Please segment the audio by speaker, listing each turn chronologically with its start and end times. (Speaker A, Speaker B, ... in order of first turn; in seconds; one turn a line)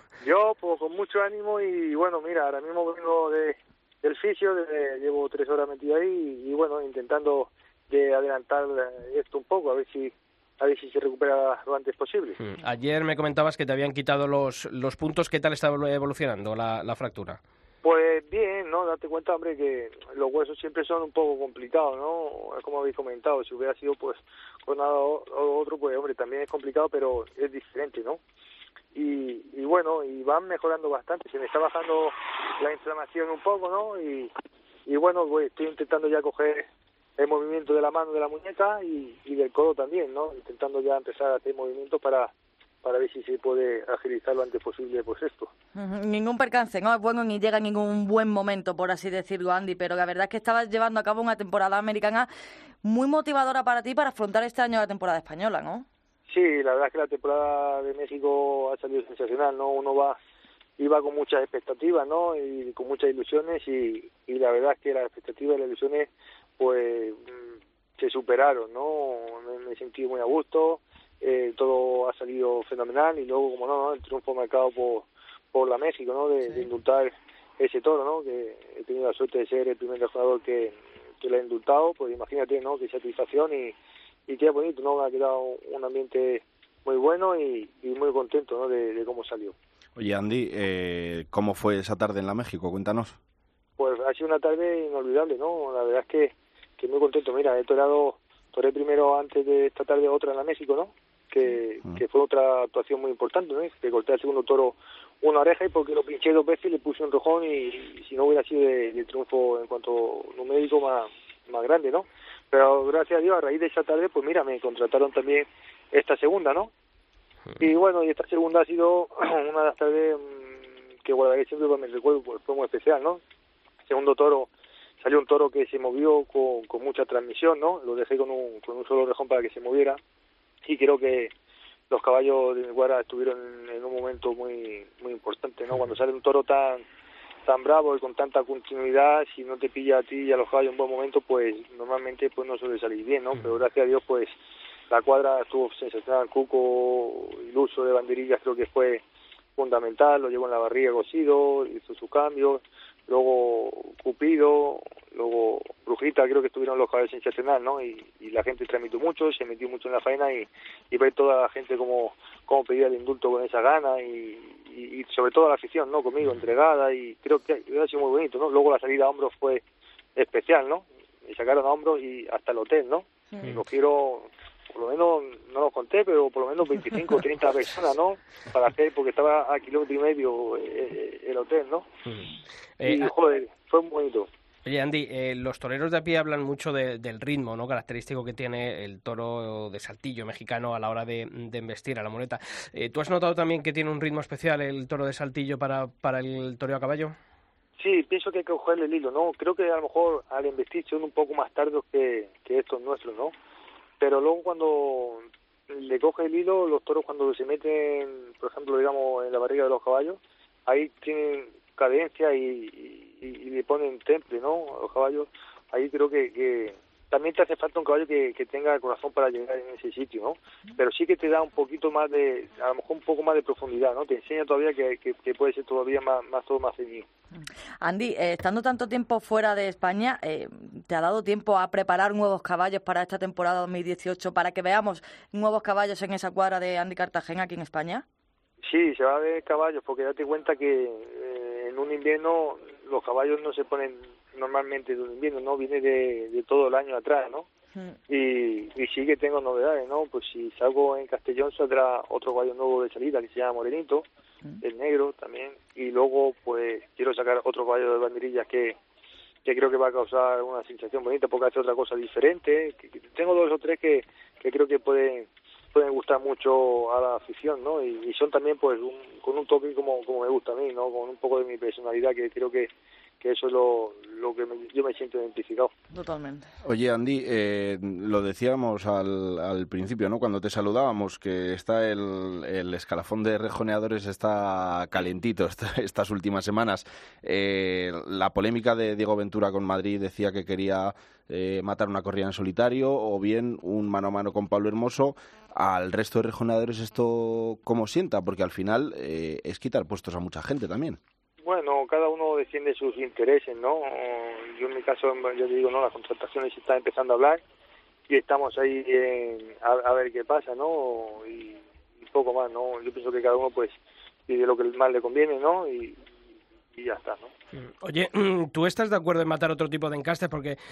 Speaker A: 0.2-12.4
Speaker B: 12.4-17.4
Speaker A: 17.8-28.2
Speaker A: 28.9-34.3
Speaker A: 34.9-42.3
Speaker A: 42.8-45.5
Speaker C: 45.8-52.3
Speaker C: 52.8-55.9
Speaker A: 56.3-60.2
Speaker A: 60.8-67.4
Speaker A: 68.0-83.8
Speaker A: 84.3-89.6
Speaker D: 90.0-93.2
Speaker A: 93.8-116.7
Speaker A: 117.6-123.2
Speaker A: 123.9-124.5
Speaker A: 125.0-130.0
Speaker A: 130.6-131.3
Speaker A: 131.9-136.8
Speaker A: 137.4-144.3
Speaker B: 143.3-143.6
Speaker A: 144.9-149.0
Speaker A: 149.6-169.6
Speaker A: 170.2-181.9
Speaker B: 182.1-183.1
Speaker A: 182.8-184.3
Speaker B: 184.7-197.2
Speaker A: 197.8-203.3
Speaker A: 204.0-227.1
Speaker C: 227.8-238.0
Speaker A: 238.6-247.5
Speaker A: 248.1-254.1
Speaker A: 254.6-258.8
Speaker A: 259.4-272.7
Speaker A: 273.2-275.7
Speaker C: 275.9-276.5
Speaker D: 276.6-301.0
Speaker A: 301.4-307.4
Speaker A: 308.1-313.8
Speaker A: 314.3-316.0
Speaker A: 316.8-317.3
Speaker B: 317.6-320.6